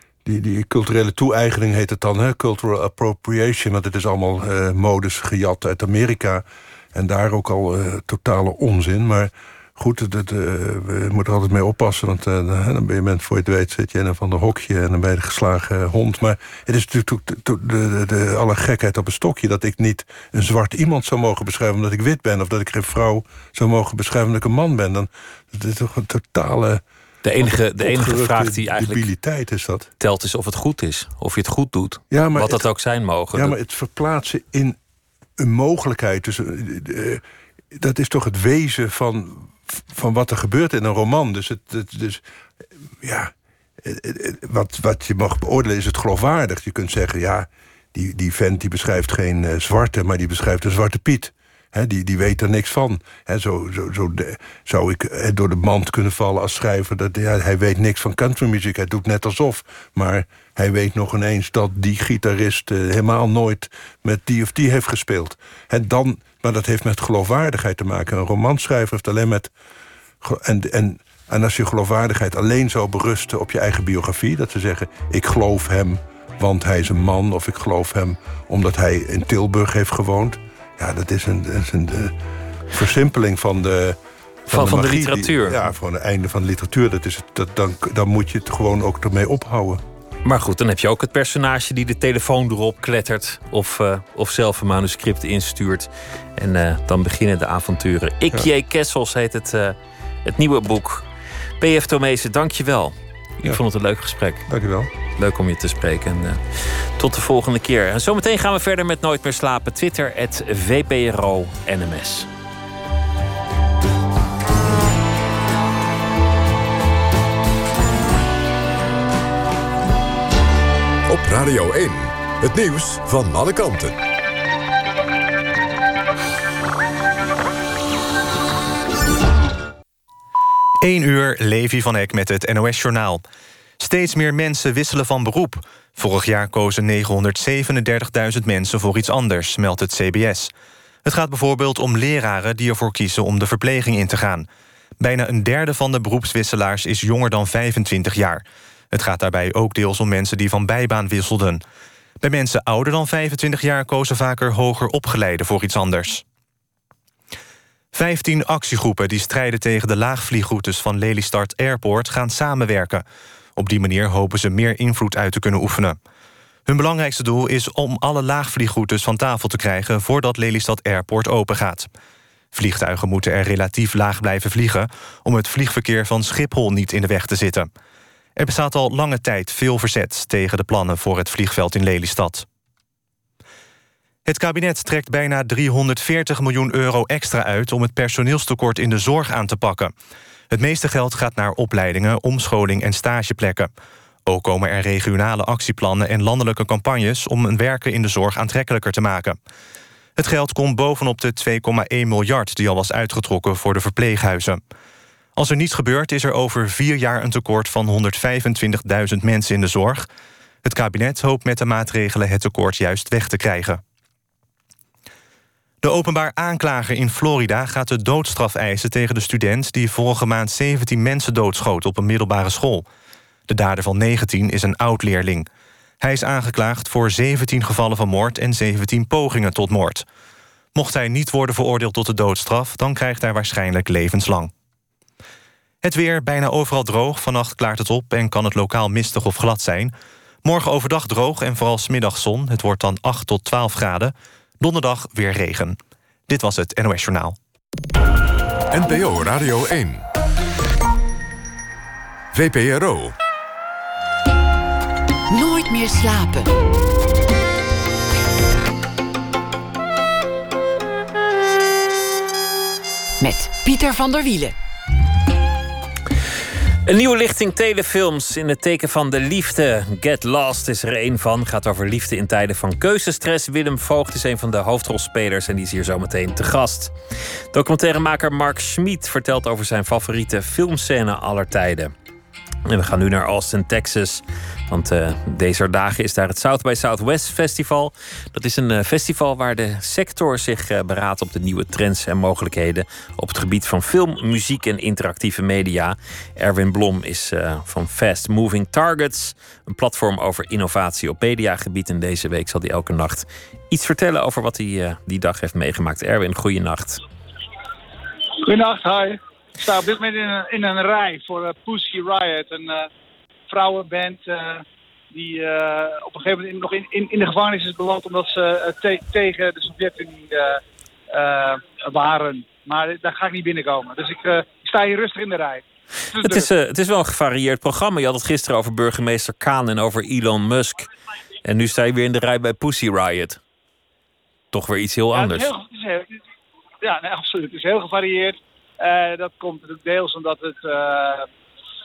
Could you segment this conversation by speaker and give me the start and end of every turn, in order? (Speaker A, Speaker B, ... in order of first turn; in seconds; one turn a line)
Speaker A: 0.2-26.8
Speaker B: 27.2-29.0
Speaker A: 27.4-29.9
Speaker B: 30.0-33.5
Speaker A: 32.1-32.6
Speaker A: 33.3-34.8
Speaker A: 35.4-37.2
Speaker A: 37.7-42.2
Speaker A: 43.0-43.3
Speaker A: 43.8-69.5
Speaker A: 70.2-82.1
Speaker A: 82.7-89.8
Speaker B: 84.5-85.6
Speaker B: 90.2-101.0
Speaker B: 101.6-104.4
Speaker A: 104.5-104.9
Speaker B: 105.2-112.3
Speaker C: 121.1-124.0
Speaker D: 130.8-133.2
Speaker D: 133.8-140.5
Speaker D: 141.0-144.5
Speaker D: 145.0-151.6
Speaker D: 152.2-156.2
Speaker D: 157.9-163.0
Speaker D: 163.6-166.0
Speaker D: 166.7-171.9
Speaker D: 172.5-177.7
Speaker D: 178.4-182.4
Speaker D: 184.3-189.9
Speaker D: 190.5-193.7
Speaker D: 194.3-199.4
Speaker D: 200.2-204.6
Speaker D: 205.3-210.1
Speaker D: 210.6-213.8
Speaker D: 215.8-222.8
Speaker D: 223.5-225.5
Speaker D: 226.0-230.0
Speaker D: 230.7-234.5
Speaker D: 235.8-239.9
Speaker D: 240.4-247.3
Speaker C: 248.7-250.0
Speaker C: 252.3-253.2
Speaker E: 255.3-256.5
Speaker E: 263.2-264.6
Speaker B: 266.9-276.9
Speaker B: 277.5-281.9
Speaker B: 282.6-307.0
Speaker F: 308.4-312.9
Speaker F: 313.5-320.6
Speaker F: 321.1-326.5
Speaker B: 326.2-330.9
Speaker B: 331.4-333.4
Speaker B: 334.5-335.5
Speaker F: 335.1-336.1
Speaker F: 336.8-341.3